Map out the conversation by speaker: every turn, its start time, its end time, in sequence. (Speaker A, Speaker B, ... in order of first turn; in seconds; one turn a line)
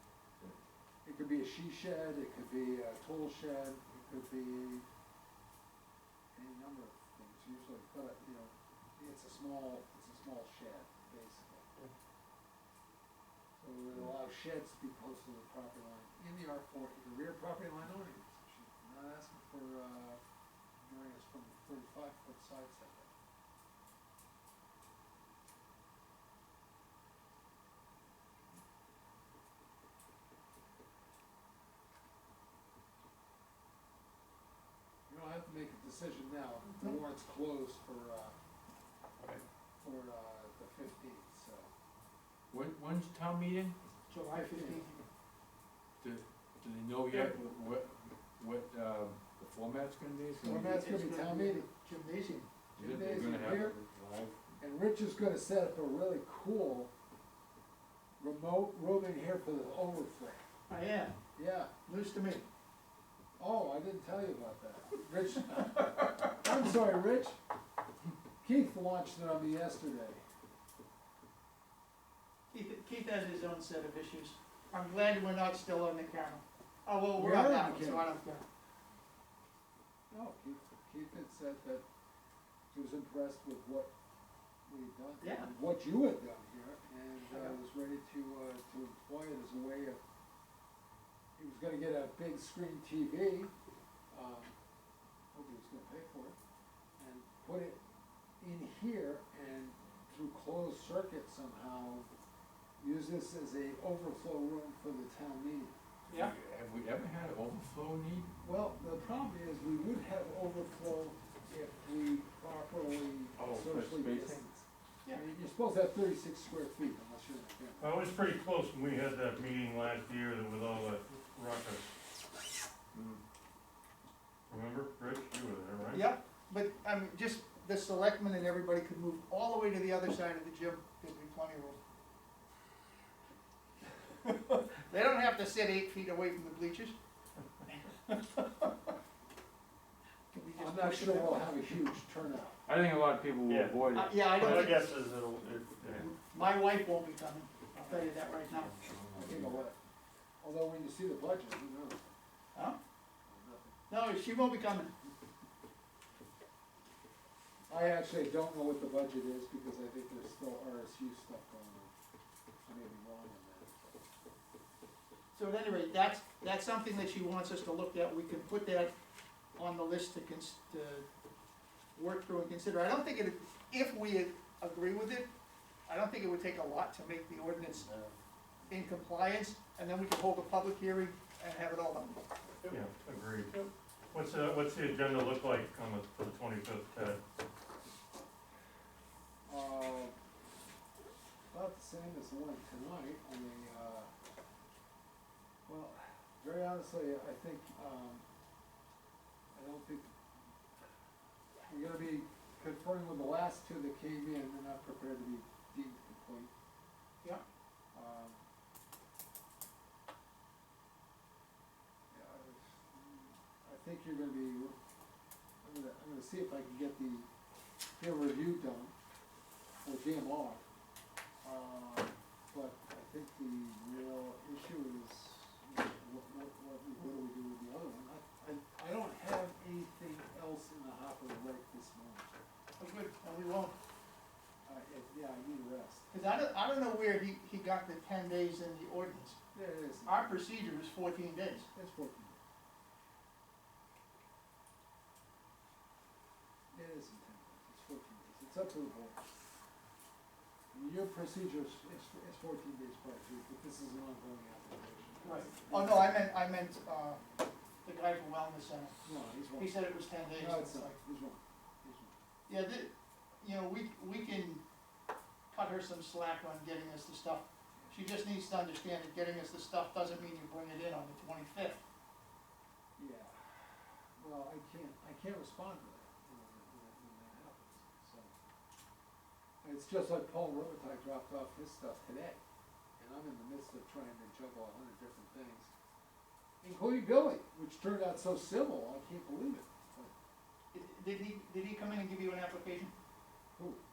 Speaker A: 1.0-4.8
Speaker A: 6.3-11.7
Speaker A: 13.6-20.2
Speaker A: 20.8-23.1
Speaker A: 35.1-38.3
Speaker A: 39.8-41.7
Speaker B: 42.5-43.8
Speaker C: 44.1-45.0
Speaker A: 44.2-44.9
Speaker B: 46.0-50.8
Speaker A: 50.4-51.7
Speaker C: 50.4-52.5
Speaker A: 52.8-53.8
Speaker B: 52.8-54.4
Speaker A: 54.6-56.9
Speaker A: 58.2-60.4
Speaker C: 60.7-61.1
Speaker A: 61.4-61.7
Speaker C: 61.9-62.4
Speaker A: 63.4-67.4
Speaker A: 68.4-70.2
Speaker C: 72.5-78.4
Speaker A: 77.2-78.1
Speaker A: 80.1-81.8
Speaker A: 82.7-83.9
Speaker A: 84.7-90.0
Speaker C: 85.2-85.5
Speaker C: 87.3-87.6
Speaker A: 91.3-93.5
Speaker A: 94.1-94.5
Speaker A: 95.3-96.4
Speaker A: 97.0-97.8
Speaker A: 98.4-102.1
Speaker A: 102.8-105.8
Speaker C: 106.1-106.3
Speaker B: 106.1-108.3
Speaker A: 108.4-118.1
Speaker B: 113.4-114.4
Speaker D: 117.8-121.9
Speaker B: 122.9-123.2
Speaker D: 124.5-126.1
Speaker C: 125.9-131.8
Speaker C: 134.2-136.9
Speaker C: 137.7-138.9
Speaker C: 140.3-141.6
Speaker A: 140.6-142.6
Speaker B: 142.7-144.7
Speaker D: 143.5-143.8
Speaker C: 143.9-144.9
Speaker D: 144.3-146.1
Speaker C: 146.0-148.7
Speaker B: 148.7-149.6
Speaker A: 149.2-149.8
Speaker A: 150.4-152.1
Speaker A: 153.2-153.8
Speaker C: 153.9-154.9
Speaker A: 157.7-161.9
Speaker A: 162.7-163.9
Speaker C: 165.3-168.9
Speaker C: 169.6-171.1
Speaker C: 171.9-175.3
Speaker C: 175.9-177.9
Speaker C: 178.7-182.8
Speaker D: 182.7-183.5
Speaker D: 184.1-187.2
Speaker A: 189.4-190.1
Speaker A: 191.5-194.1
Speaker A: 195.7-198.2
Speaker A: 199.5-200.1
Speaker A: 201.7-206.5
Speaker A: 207.9-208.4
Speaker A: 212.1-214.8
Speaker A: 215.6-217.3
Speaker A: 217.9-218.9
Speaker A: 219.8-220.6
Speaker A: 221.4-232.4
Speaker C: 232.8-233.7
Speaker A: 234.6-236.1
Speaker C: 236.1-239.4
Speaker A: 239.5-240.4
Speaker C: 240.1-241.7
Speaker A: 241.6-242.4
Speaker A: 246.7-249.2
Speaker A: 250.7-256.2
Speaker C: 255.2-257.2
Speaker C: 257.8-258.9
Speaker A: 259.0-259.8
Speaker C: 259.5-260.9
Speaker A: 260.3-262.2
Speaker C: 262.5-264.6
Speaker C: 265.5-271.8
Speaker A: 273.0-278.3
Speaker A: 279.6-282.4
Speaker A: 283.0-285.7
Speaker A: 286.6-290.1
Speaker C: 290.7-292.9
Speaker A: 293.6-293.8